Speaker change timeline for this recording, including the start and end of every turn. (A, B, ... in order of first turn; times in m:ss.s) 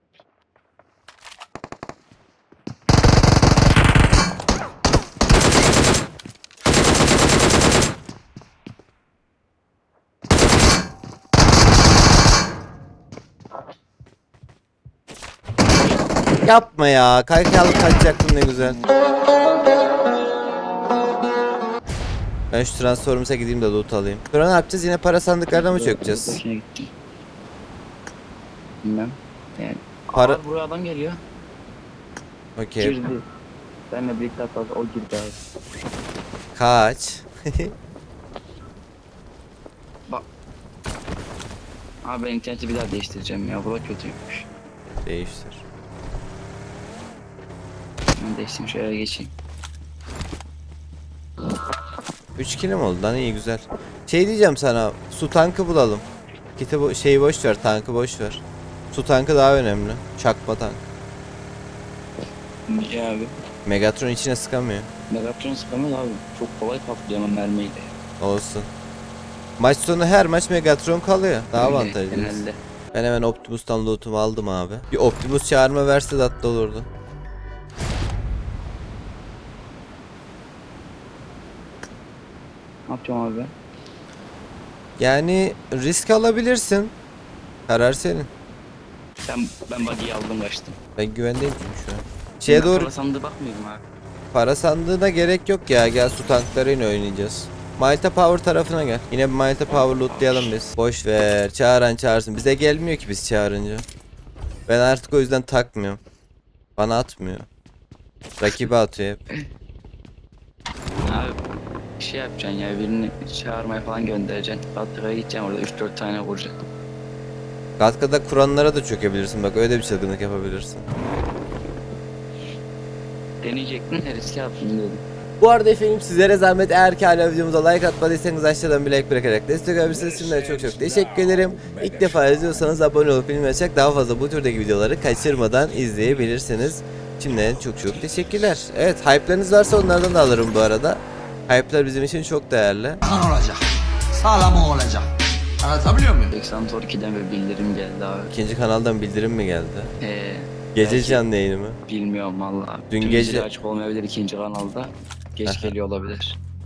0:16.4-0:18.8 A
0:22.5-0:26.4 A
0:25.5-0:26.9 B
0:28.8-0:31.2 B
0:32.6-0:33.0 A
0:32.8-0:33.2 B
0:33.9-0:35.4 B
0:36.5-0:37.7 A
0:42.0-0:44.5 B
0:45.0-0:45.6 A
0:48.2-0:49.3 B
0:52.4-0:56.0 A
0:56.6-1:00.8 A
1:02.7-1:03.3 B
1:03.6-1:04.9 A
1:05.1-1:08.0 B
1:08.2-1:08.7 A
1:09.6-1:16.9 A
1:11.6-1:12.6 B
1:22.9-1:23.5 B
1:25.0-1:26.9 A
1:27.7-1:28.3 A
1:29.2-1:30.8 B
1:31.0-1:32.9 A
1:32.5-1:33.8 B
1:34.3-1:43.8 A
1:39.7-1:40.5 B
1:44.7-1:46.0 A
1:46.8-1:47.5 A
1:48.4-1:49.2 A
1:51.1-1:51.4 B
1:52.0-1:56.5 B
1:57.8-2:00.9 A
2:03.4-2:05.0 B
2:05.4-2:23.0 A
2:23.1-2:23.6 C
2:24.2-2:25.1 C
2:25.6-2:26.3 C
2:26.3-2:28.3 B
2:28.3-2:29.9 A
2:30.0-2:31.2 B
2:30.7-2:31.8 A
2:31.8-2:36.4 B
2:32.9-2:33.5 A
2:35.4-2:35.7 A